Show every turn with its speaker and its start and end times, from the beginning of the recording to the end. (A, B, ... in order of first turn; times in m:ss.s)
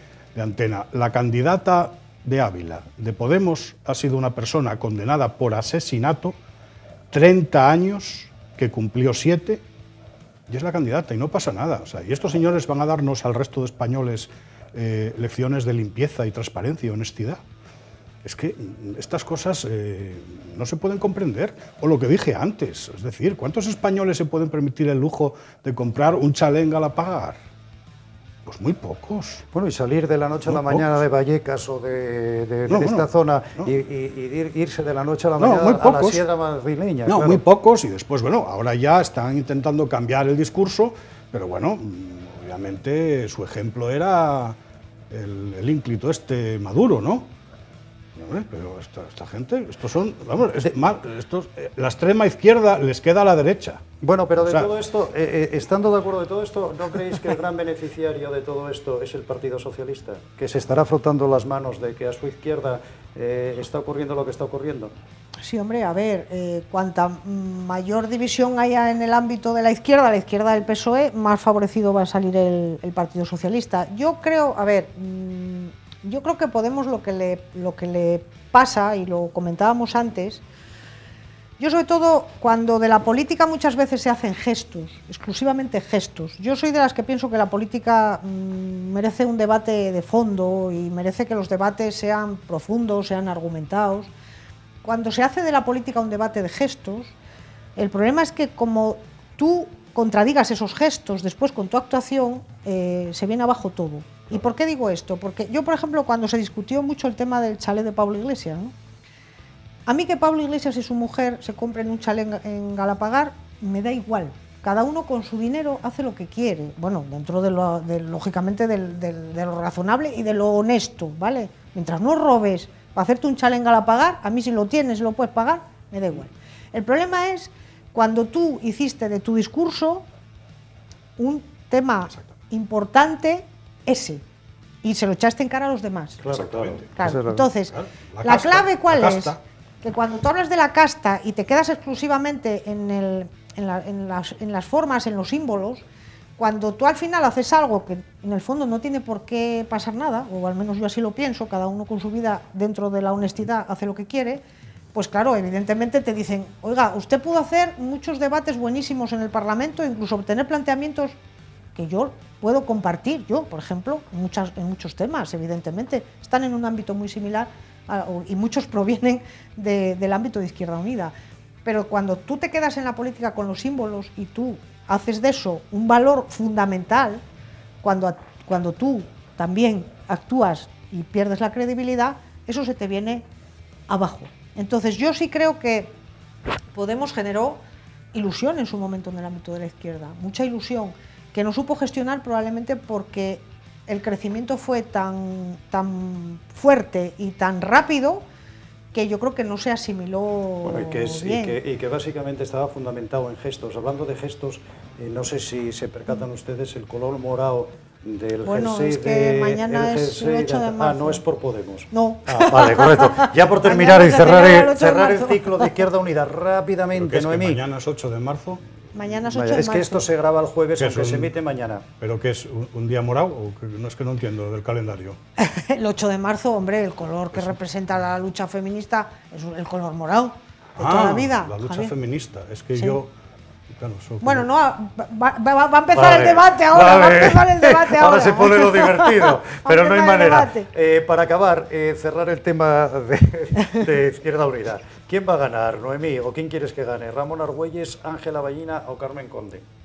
0:00.3-0:06.4 A
0:07.1-0:09.6 A
0:10.5-0:17.4 A
0:18.2-0:27.4 A
0:28.4-0:29.4 A
0:29.5-0:37.4 B
0:30.4-0:30.8 A
0:32.7-0:33.0 A
0:35.4-0:36.2 A
0:37.0-0:44.6 A
0:45.1-0:47.3 A
0:48.2-0:53.8 A
0:54.0-1:04.9 B
1:05.4-1:20.4 C
1:21.6-1:34.1 C
1:34.8-1:37.1 C
1:37.8-1:48.7 C
1:49.9-2:10.0 C
2:11.2-2:14.2 C
2:14.8-2:16.2 C
2:16.2-2:17.5 B
2:16.3-2:16.9 A
2:17.0-2:25.8 C
2:17.7-2:19.4 A
2:26.4-2:34.4 C
2:34.9-2:41.2 C
2:41.7-2:51.1 C
2:51.6-2:57.2 C
2:57.8-3:03.2 C
3:03.9-3:05.9 C
3:06.7-3:07.6 C
3:08.1-3:18.2 C
3:18.9-3:21.6 C
3:20.6-3:37.6 B
3:28.4-3:31.2 C
3:31.9-3:35.7 C
3:36.9-3:38.6 A
3:38.9-3:40.0 C
3:39.3-3:41.8 B
3:40.8-3:41.3 A
3:42.0-3:45.2 A
3:45.4-3:51.9 C
3:50.8-3:53.1 A
3:53.7-3:54.4 A
3:54.2-4:00.7 C
3:55.9-4:09.6 B